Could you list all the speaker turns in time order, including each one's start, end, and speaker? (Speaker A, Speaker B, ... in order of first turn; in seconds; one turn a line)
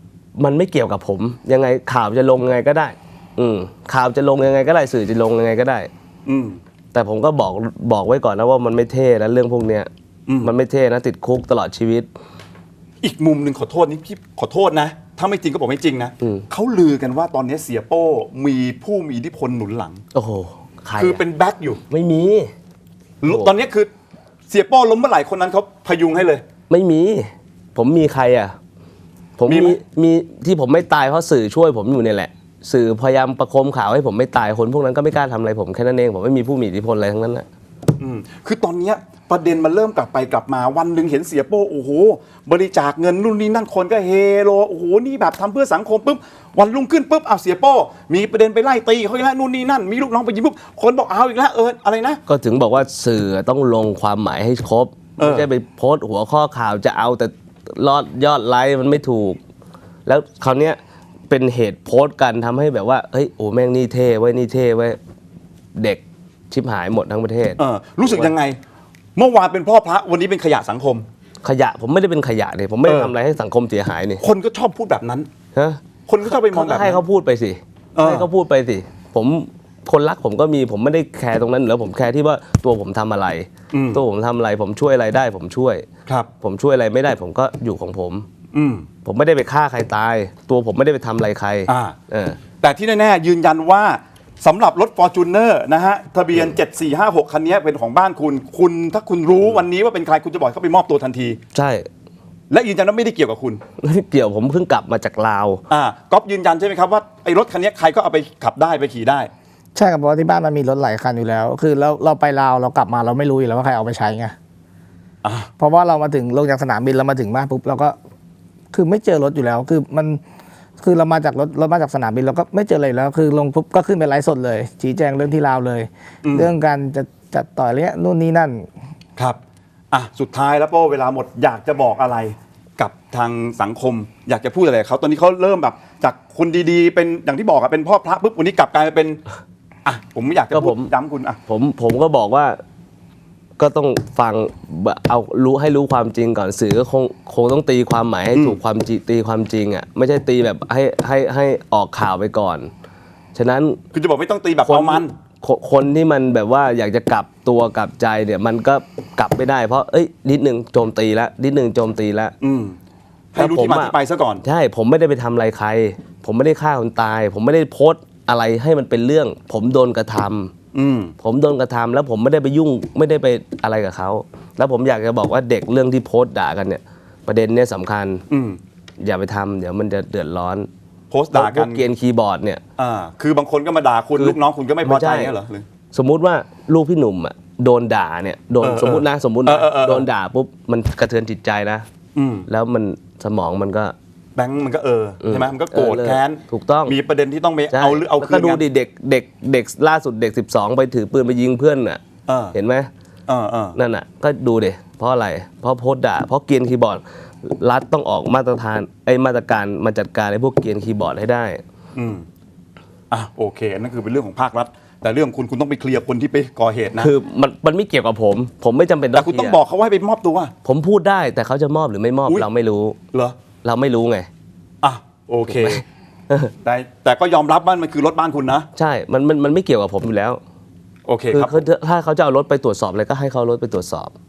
Speaker A: 0.4-5.9
Speaker B: 6.3-6.6
Speaker A: 6.9-9.9
Speaker A: 10.4-12.1
Speaker B: 13.0-20.0
Speaker A: 16.2-16.5
Speaker A: 20.1-21.2
Speaker B: 21.0-21.8
Speaker A: 21.9-22.5
Speaker B: 23.2-23.9
Speaker A: 23.3-23.5
Speaker B: 24.5-26.4
Speaker A: 26.7-28.6
Speaker A: 29.4-37.5
Speaker B: 29.5-29.8
Speaker B: 38.0-52.2
Speaker A: 52.3-59.4
Speaker B: 55.2-55.5
Speaker A: 60.1-65.0
Speaker A: 65.8-68.3
Speaker B: 67.6-68.6
Speaker B: 69.2-71.1
Speaker A: 71.4-74.2
Speaker B: 72.9-73.1
Speaker B: 74.2-75.3
Speaker A: 75.5-85.9
Speaker B: 76.1-77.0
Speaker B: 78.0-78.3
Speaker B: 83.7-84.0
Speaker A: 86.4-88.3
Speaker B: 88.5-88.9
Speaker A: 89.0-92.4
Speaker B: 91.7-92.0
Speaker B: 92.6-101.4
Speaker A: 101.5-101.9
Speaker B: 102.5-103.6
Speaker A: 103.8-105.6
Speaker B: 105.7-109.3
Speaker C: 109.8-114.3
Speaker B: 115.2-115.5
Speaker C: 115.6-118.0
Speaker C: 118.7-120.2
Speaker C: 120.8-128.7
Speaker B: 126.2-126.5
Speaker B: 129.9-139.2
Speaker B: 139.8-141.4
Speaker A: 140.5-140.9
Speaker A: 141.5-142.6
Speaker A: 143.6-152.7
Speaker B: 148.3-148.6
Speaker A: 153.3-153.8
Speaker B: 153.9-155.1
Speaker A: 154.7-162.3
Speaker B: 162.4-162.8
Speaker B: 163.3-164.4
Speaker A: 163.4-170.5
Speaker B: 170.7-171.1
Speaker A: 171.2-178.2
Speaker B: 178.3-178.6
Speaker A: 179.0-180.7
Speaker B: 181.1-181.8
Speaker A: 181.3-182.6
Speaker B: 182.8-185.7
Speaker A: 184.2-185.3
Speaker A: 185.9-191.9
Speaker B: 188.6-190.1
Speaker B: 192.2-192.5
Speaker A: 192.5-193.9
Speaker B: 194.4-198.6
Speaker A: 195.2-197.0
Speaker A: 197.7-202.0
Speaker B: 202.3-202.6
Speaker A: 202.5-202.9
Speaker B: 203.3-203.8
Speaker A: 203.8-211.6
Speaker B: 211.9-212.2
Speaker B: 213.1-217.1
Speaker A: 217.0-219.6
Speaker B: 219.2-220.5
Speaker A: 220.6-223.0
Speaker A: 223.6-224.3
Speaker B: 224.8-225.8
Speaker A: 225.5-226.5
Speaker B: 226.6-228.7
Speaker A: 228.8-230.4
Speaker B: 231.1-231.6
Speaker A: 231.3-234.2